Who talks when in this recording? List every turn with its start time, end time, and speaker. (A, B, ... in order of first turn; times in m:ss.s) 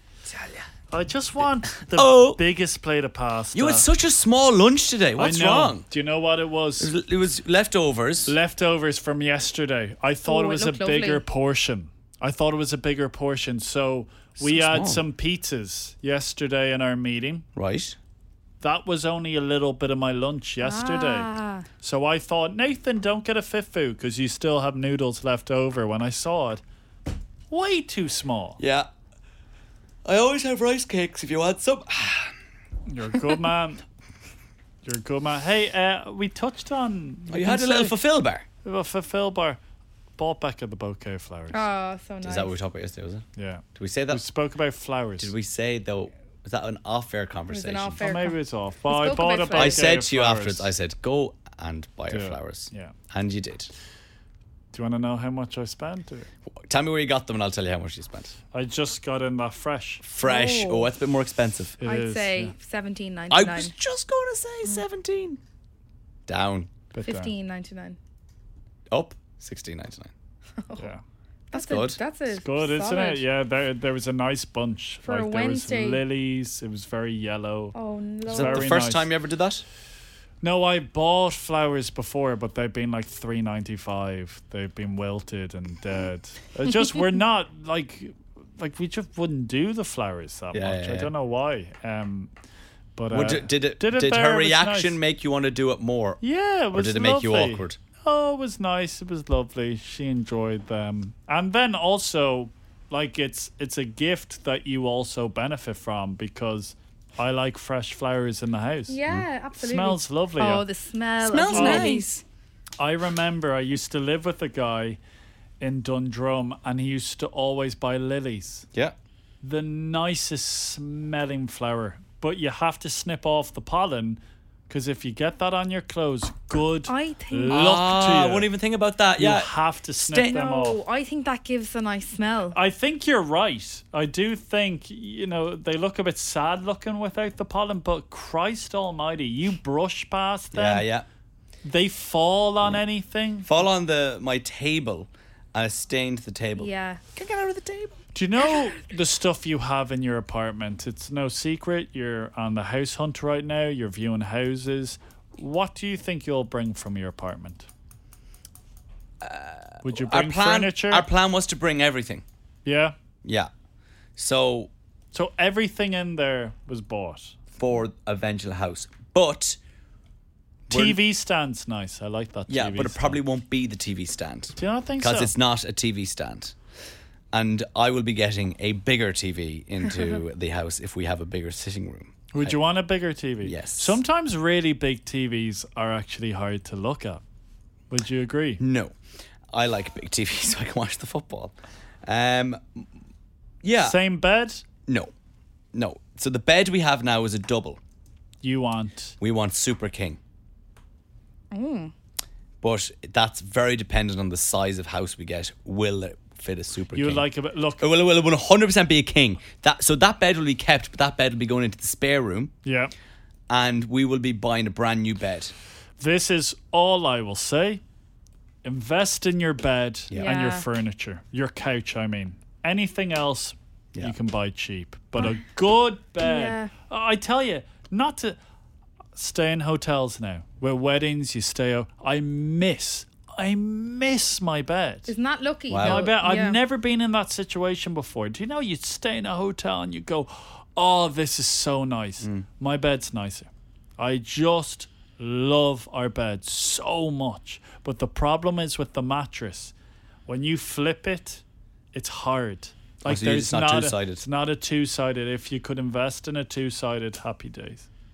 0:00.3-0:00.7 A
0:00.9-0:03.8 B
0:01.7-0:02.4 A
0:03.5-0:05.8 A
0:05.2-0:06.9 B
0:06.8-0:08.3 A
0:08.2-0:17.4 B
0:10.3-0:11.2 C
0:14.4-0:15.0 A
0:17.6-0:18.0 A
0:18.6-0:21.3 B
0:20.6-0:21.6 C
0:21.8-0:26.6 B
0:27.5-0:28.6 B
0:28.6-0:28.9 A
0:30.0-0:32.3 A
0:32.9-0:33.8 B
0:34.8-0:37.9 B
0:37.3-0:38.4 A
0:38.6-0:39.6 B
0:40.2-0:41.7 B
0:41.5-0:42.6 C
0:42.2-0:43.2 A
0:43.4-0:45.3 B
0:43.8-0:44.2 A
0:45.2-0:48.0 A
0:47.5-0:49.8 C
0:48.0-0:50.7 B
0:49.5-0:53.7 A
0:52.1-0:52.9 B
0:54.7-0:56.3 B
0:56.5-0:58.4 A
0:58.5-1:00.0 B
1:00.0-1:01.8 A
1:00.2-1:00.9 C
1:01.8-1:02.5 B
1:01.8-1:03.7 C
1:03.3-1:05.4 A
1:06.3-1:06.7 A
1:06.9-1:07.3 B
1:07.0-1:08.0 C
1:08.9-1:10.1 A
1:11.5-1:13.2 C
1:11.5-1:12.0 A
1:12.3-1:17.7 B
1:15.1-1:16.0 C
1:17.8-1:18.7 C
1:18.2-1:19.1 B
1:18.3-1:19.6 A
1:20.4-1:32.3 B
1:30.5-1:31.1 A
1:32.9-1:35.0 B
1:33.1-1:36.2 A
1:36.2-1:49.0 B
1:36.7-1:37.8 A
1:48.9-1:52.2 C
1:49.5-1:50.6 B
1:51.2-1:52.2 A
1:51.4-1:52.0 B
1:52.8-1:55.0 B
1:55.6-1:58.7 B
1:59.4-2:08.5 B
2:06.9-2:07.5 C
2:07.5-2:10.3 A
2:09.2-2:10.8 B
2:10.2-2:12.6 C
2:12.5-2:20.9 B
2:20.5-2:21.0 A
2:21.6-2:23.5 B
2:23.4-2:28.0 A
2:26.6-2:27.0 C
2:28.1-2:37.7 B
2:39.2-2:42.2 A
2:39.8-2:41.1 B
2:42.6-2:43.0 B
2:43.2-2:43.5 A
2:44.2-2:44.7 A
2:45.1-2:47.3 B
2:47.6-2:49.6 A
2:50.7-2:51.0 A
2:50.7-2:53.2 B
2:52.5-2:56.5 A
2:54.6-2:55.3 B
2:57.3-3:02.6 A
3:02.3-3:07.2 B
3:03.4-3:04.0 A
3:07.9-3:08.6 B
3:08.6-3:08.9 A
3:09.5-3:12.8 A
3:13.6-3:14.0 A
3:13.8-3:14.6 B
3:14.9-3:15.1 A
3:15.7-3:17.8 A
3:18.4-3:19.1 B
3:19.2-3:20.2 A
3:21.5-3:21.9 C
3:22.6-3:27.3 A
3:26.9-3:27.8 B
3:27.8-3:32.5 A
3:32.6-3:32.9 B
3:33.5-3:35.5 A
3:36.0-3:37.8 B
3:38.6-3:48.4 B
3:40.1-3:40.6 C
3:46.2-3:46.7 C
3:49.2-3:55.1 B
3:55.1-3:56.6 C
3:55.7-3:56.1 A
3:55.8-4:09.7 B
4:02.2-4:02.4 A
4:10.3-4:17.8 B
4:13.0-4:14.2 A